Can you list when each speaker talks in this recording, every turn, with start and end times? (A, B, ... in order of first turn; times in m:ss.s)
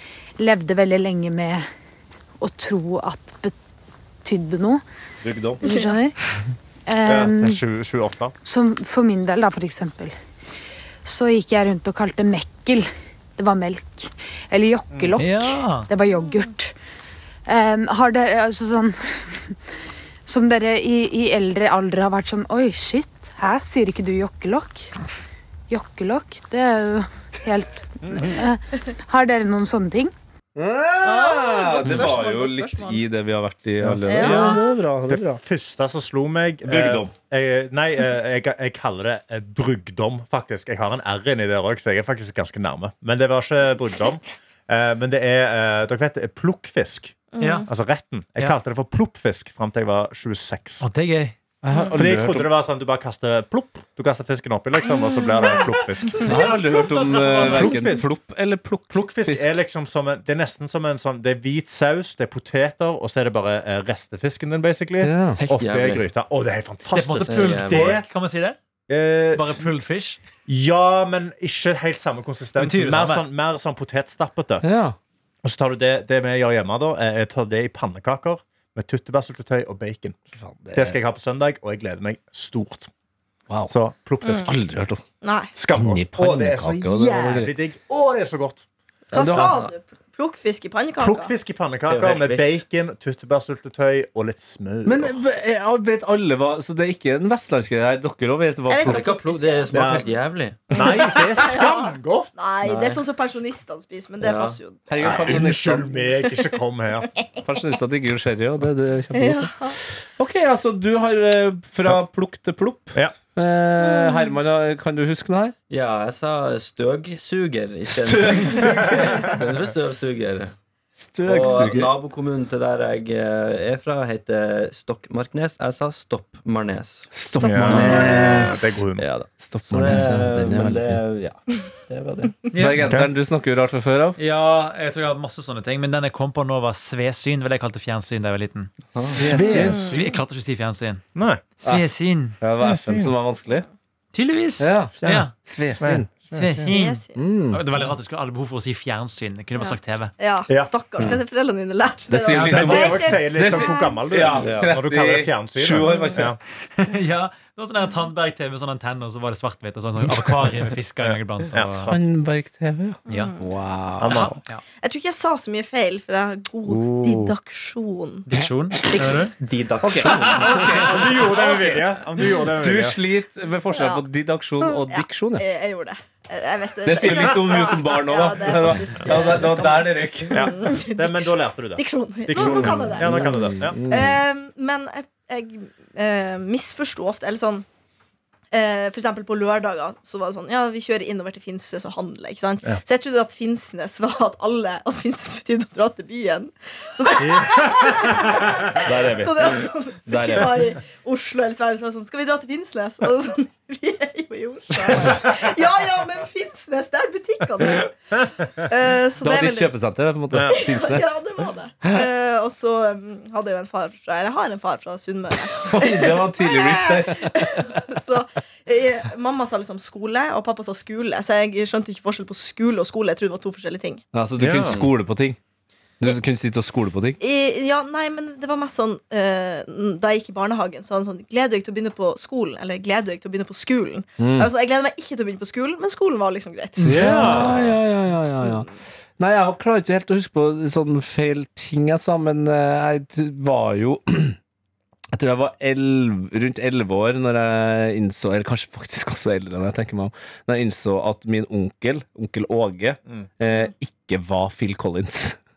0:00.4-0:01.7 A
0:02.4-0:03.6 A
0:04.2-0:04.8 A
0:05.2-0:05.6 B
0:05.6-0:06.2 A
0:06.9-0:07.6 A
0:07.1-0:08.3 C
0:08.4-0:10.2 A
0:11.0-0:16.7 A
0:14.9-0:15.2 C
0:15.2-0:15.9 D
0:17.5-0:19.5 A
0:20.3-0:24.9 A
0:25.7-0:30.1 A
0:28.0-0:28.4 C
0:30.6-0:35.4 B
0:31.0-0:33.0 E
0:33.8-0:34.6 C
0:34.1-0:34.6 E
0:34.2-0:34.6 D
0:35.1-0:50.8 C
0:36.6-0:37.1 B
0:47.3-0:47.7 E
0:47.4-0:47.7 D
0:50.8-0:51.4 D
0:51.6-0:52.5 B
0:52.0-0:56.6 C
0:54.9-0:55.6 E
0:56.2-0:58.0 D
0:56.2-0:59.6 B
0:57.2-0:58.1 C
0:58.9-1:08.0 C
1:05.0-1:05.4 B
1:05.4-1:06.1 F
1:06.9-1:08.6 D
1:07.2-1:08.0 F
1:08.9-1:09.5 C
1:09.3-1:10.2 D
1:10.5-1:14.6 C
1:12.6-1:13.2 D
1:14.6-1:15.0 B
1:15.4-1:20.2 C
1:20.4-1:21.0 B
1:20.8-1:22.9 C
1:23.5-1:25.0 B
1:23.7-1:24.5 C
1:24.2-1:24.5 E
1:25.2-1:25.5 E
1:25.6-1:28.7 C
1:25.8-1:27.5 B
1:29.1-1:29.7 F
1:29.1-1:31.3 E
1:29.2-1:29.6 B
1:31.0-1:35.2 C
1:31.9-1:32.6 F
1:34.9-1:39.2 B
1:38.7-1:39.9 E
1:38.8-1:40.8 F
1:39.7-1:40.0 B
1:40.7-1:42.3 C
1:40.7-1:45.1 E
1:42.6-1:43.0 F
1:44.2-1:44.6 F
1:44.9-1:46.0 B
1:45.0-1:47.1 C
1:47.4-1:55.6 B
1:49.1-1:49.8 E
1:53.8-1:54.4 E
1:55.7-2:00.6 F
1:57.9-1:59.3 B
2:01.0-2:02.0 B
2:01.2-2:07.1 F
2:07.1-2:08.7 B
2:07.4-2:09.1 C
2:07.5-2:08.2 E
2:07.6-2:12.4 F
2:09.4-2:11.0 B
2:12.5-2:12.9 D
2:12.6-2:14.2 B
2:12.8-2:13.1 C
2:14.2-2:18.7 D
2:18.9-2:19.3 F
2:19.1-2:19.9 B
2:19.2-2:20.1 C
2:19.4-2:21.0 D
2:21.2-2:21.4 C
2:21.6-2:22.4 D
2:22.4-2:23.7 B
2:22.6-2:23.1 C
2:24.1-2:25.3 D
2:24.6-2:26.1 B
2:25.8-2:26.7 C
2:26.3-2:30.1 D
2:26.7-2:27.2 E
2:27.2-2:27.6 B
2:29.6-2:34.0 E
2:32.1-2:36.3 B
2:32.2-2:36.4 C
2:34.4-2:34.8 F
2:35.8-2:36.3 E
2:36.8-2:41.9 D
2:41.0-2:42.0 C
2:41.9-2:44.4 B
2:43.1-2:43.5 E
2:44.0-2:44.4 C
2:44.1-2:44.6 D
2:44.8-2:48.2 E
2:46.6-2:47.4 B
2:48.3-2:49.3 D
2:49.0-2:49.3 C
2:49.4-2:50.6 F
2:49.8-2:51.8 B
2:50.2-2:53.0 C
2:52.4-2:55.4 B
2:53.7-2:54.0 E
2:54.6-3:07.7 E
2:56.8-3:00.6 B
2:57.1-2:57.6 C
3:00.3-3:03.8 C
3:02.3-3:04.2 B
3:08.5-3:29.7 E
3:17.2-3:19.2 C
3:18.8-3:20.7 B
3:24.9-3:25.4 C
3:29.2-3:31.2 B
3:30.5-3:44.0 E
3:35.6-3:37.8 B
3:44.1-3:45.4 B
3:44.4-3:44.8 C
3:46.0-3:47.2 B
3:47.2-3:57.6 E
3:54.2-3:54.5 B
3:56.8-3:57.5 D
3:56.8-3:58.7 B
3:56.9-3:57.6 C
3:58.4-3:58.7 E
3:59.2-4:04.4 B
4:05.1-4:15.4 B